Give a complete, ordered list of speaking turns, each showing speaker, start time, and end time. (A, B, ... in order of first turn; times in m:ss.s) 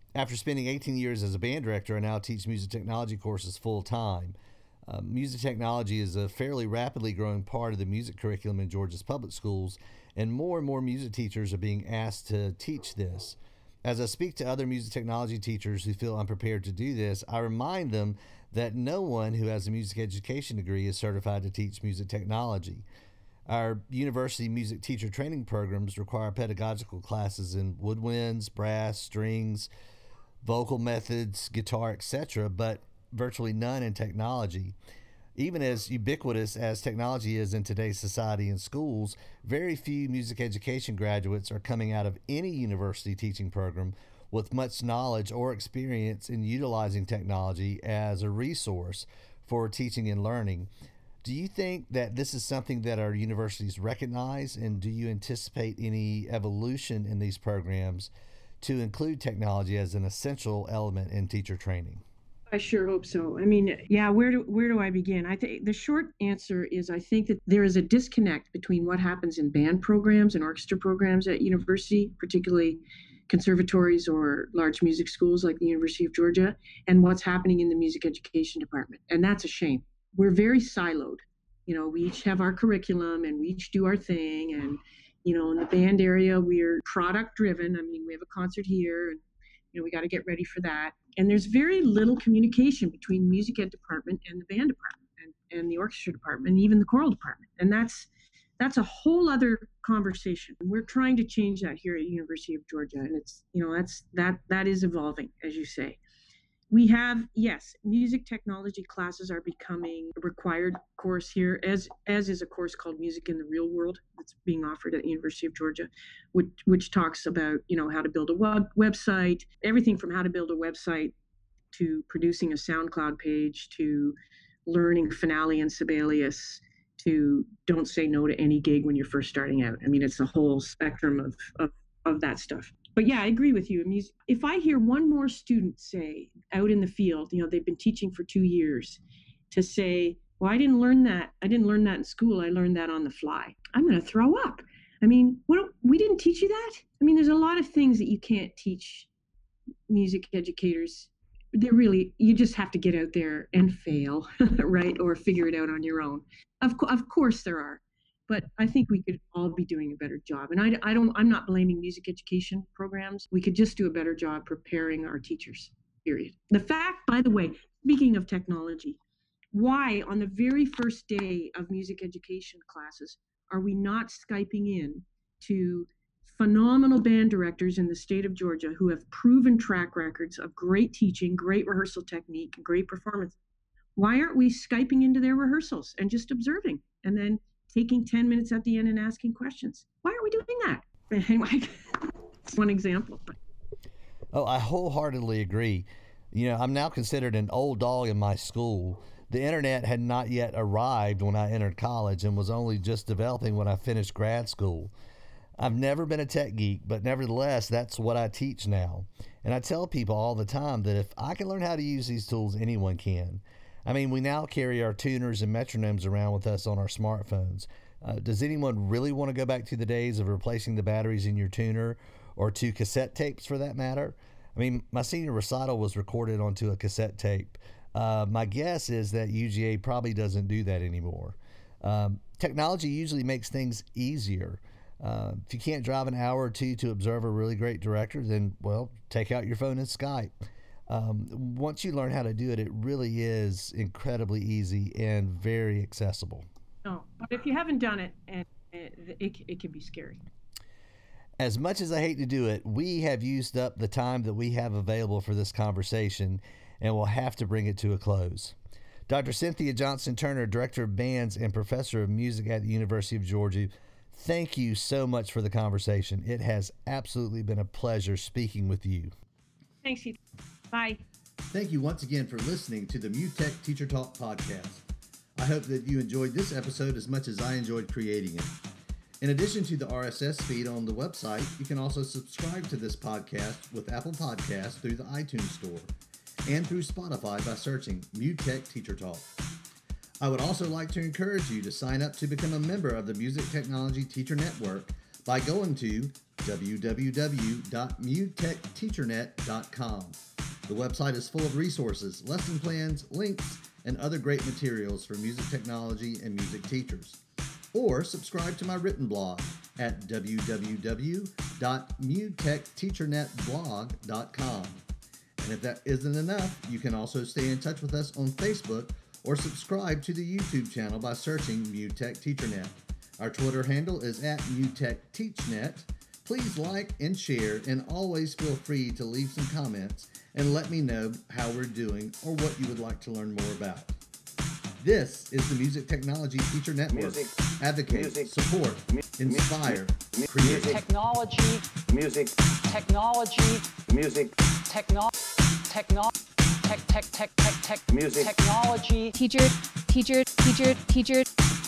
0:00.2-0:04.4 A
0:04.9-0:22.8 A
0:23.5-0:29.7 A
0:30.4-0:34.8 A
0:35.4-0:50.7 A
0:51.2-1:02.0 A
1:02.5-1:29.2 B
1:29.7-1:46.0 B
1:46.7-2:01.1 B
2:01.7-2:04.2 B
2:04.7-2:29.1 B
2:29.9-2:49.0 B
2:49.5-3:03.4 B
3:04.0-3:13.4 B
3:14.3-3:24.9 A
3:25.6-4:00.3 A
4:00.9-4:06.5 A
4:06.8-4:10.2 B
4:11.4-4:18.6 A
4:19.1-4:29.1 A
4:29.8-4:30.2 B
4:30.7-4:31.0 B
4:31.5-4:34.8 A
4:35.4-4:38.6 A
4:39.2-4:45.9 A
4:46.5-4:49.3 A
4:50.2-5:07.2 A
5:07.7-5:14.8 A
5:15.4-5:34.0 A
5:34.8-5:40.8 A
5:36.9-5:37.3 C
5:37.9-5:38.3 C
5:38.9-5:40.8 C
5:40.5-5:41.6 D
5:41.9-5:42.4 C
5:42.6-5:43.7 D
5:43.8-5:44.3 C
5:44.7-5:45.1 D
5:45.7-5:46.1 D
5:46.6-5:49.2 D
5:47.9-5:48.3 C
5:49.2-5:51.3 E